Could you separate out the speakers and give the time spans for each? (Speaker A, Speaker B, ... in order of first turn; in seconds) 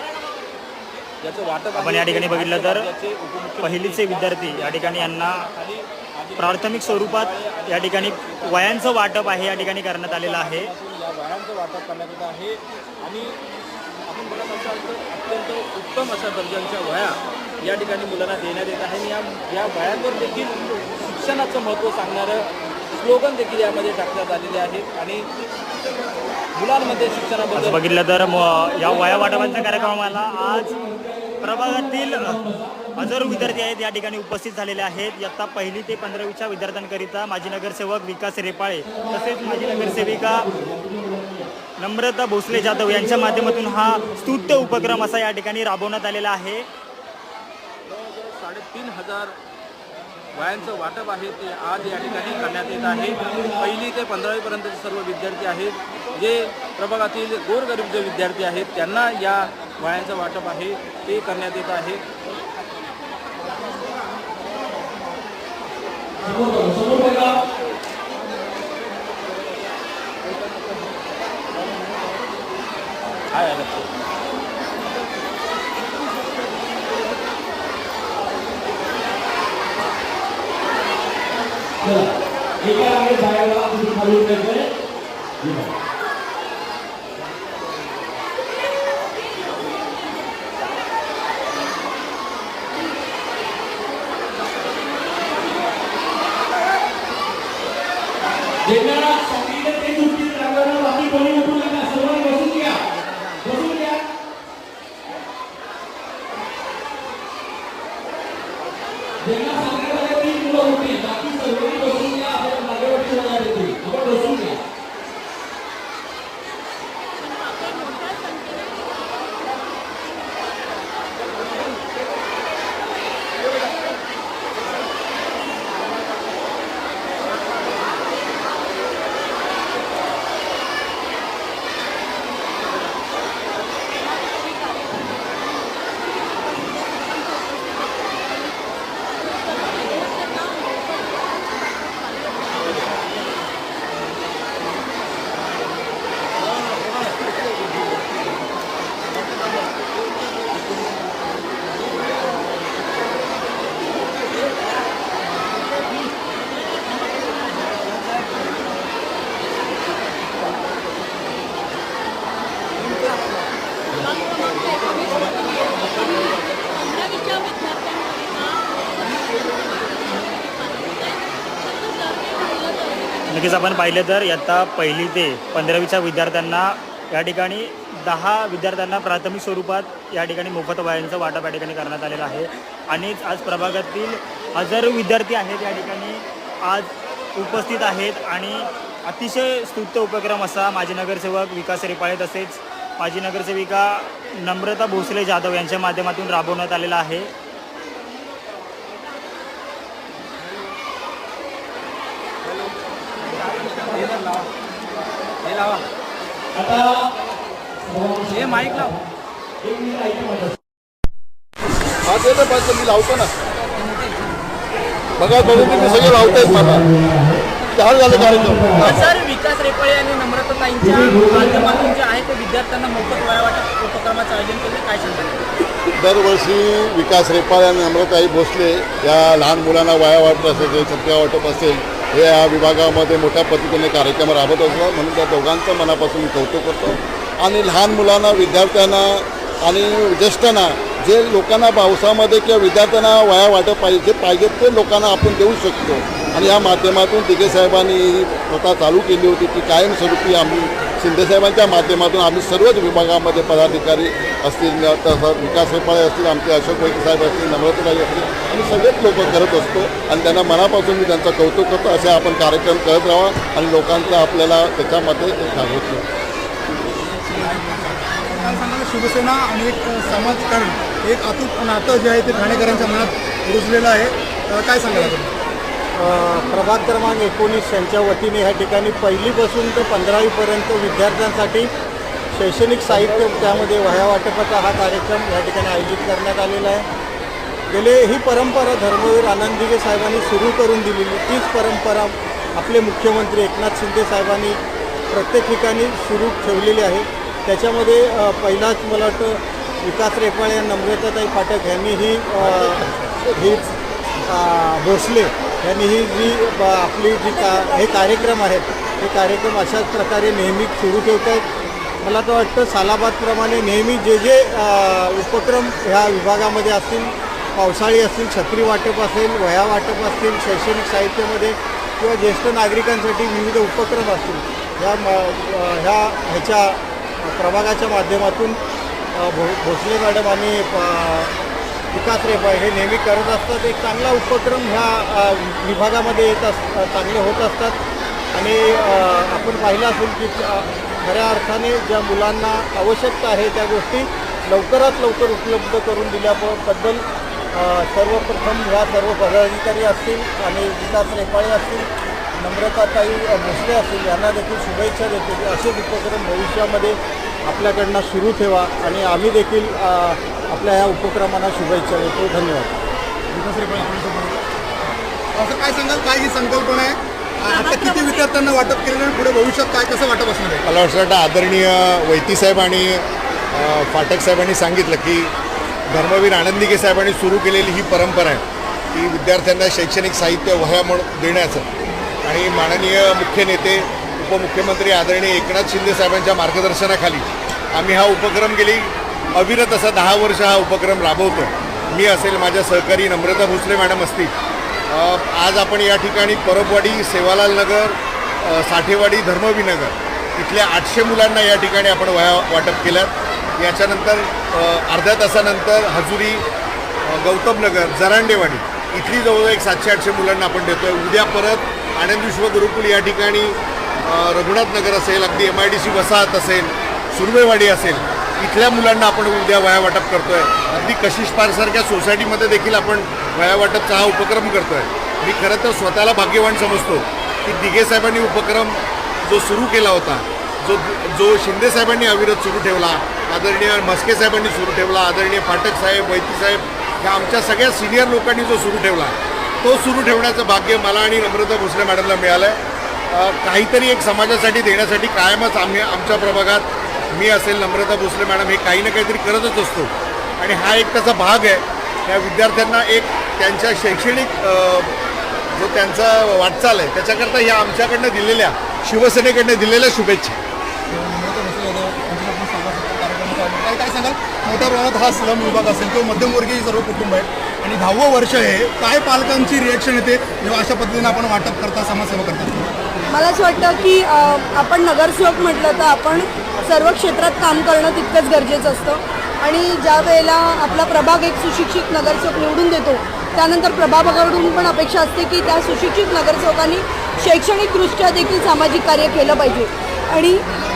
Speaker A: 1.2-13.3, 14.1-25.2, 26.6-27.8, 47.9-49.3, 50.3-62.0, 70.2-70.9, 71.6-71.9, 73.3-73.9, 162.8-163.1, 164.4-166.3, 202.4-204.5, 205.4-205.8, 208.3-208.9, 218.8-225.4
Speaker B: 1.7-2.9, 3.6-5.4, 6.4-10.7, 27.5-30.7, 31.4-32.4, 33.0-40.5, 41.8-46.6, 173.3-197.3
Speaker C: 28.1-33.5, 38.8-41.5, 42.5-45.1, 51.8-53.7, 66.2-67.3, 81.8-82.1, 82.6-84.7, 85.4-85.7, 98.6-102.8, 103.4-104.0, 109.2-114.6, 206.5-207.0, 207.8-209.0, 209.6-210.6, 220.8-221.9
Speaker D: 212.1-213.3, 215.2-216.8, 217.7-219.0, 226.0-266.0, 302.4-303.6
Speaker E: 215.4-217.4, 218.1-218.9, 275.9-281.7, 282.3-286.9, 287.7-294.6, 295.1-303.7, 304.3-311.4, 312.0-328.6, 329.1-331.3, 331.9-337.8, 338.3-362.8
Speaker F: 267.3-275.3, 363.3-364.4, 365.3-370.6, 460.9-472.7
Speaker G: 307.2-308.2, 473.1-490.4
Speaker H: 370.6-375.3, 375.9-378.4, 378.9-381.7, 382.2-394.3, 394.9-406.4, 407.1-442.6, 443.1-454.9, 455.6-460.4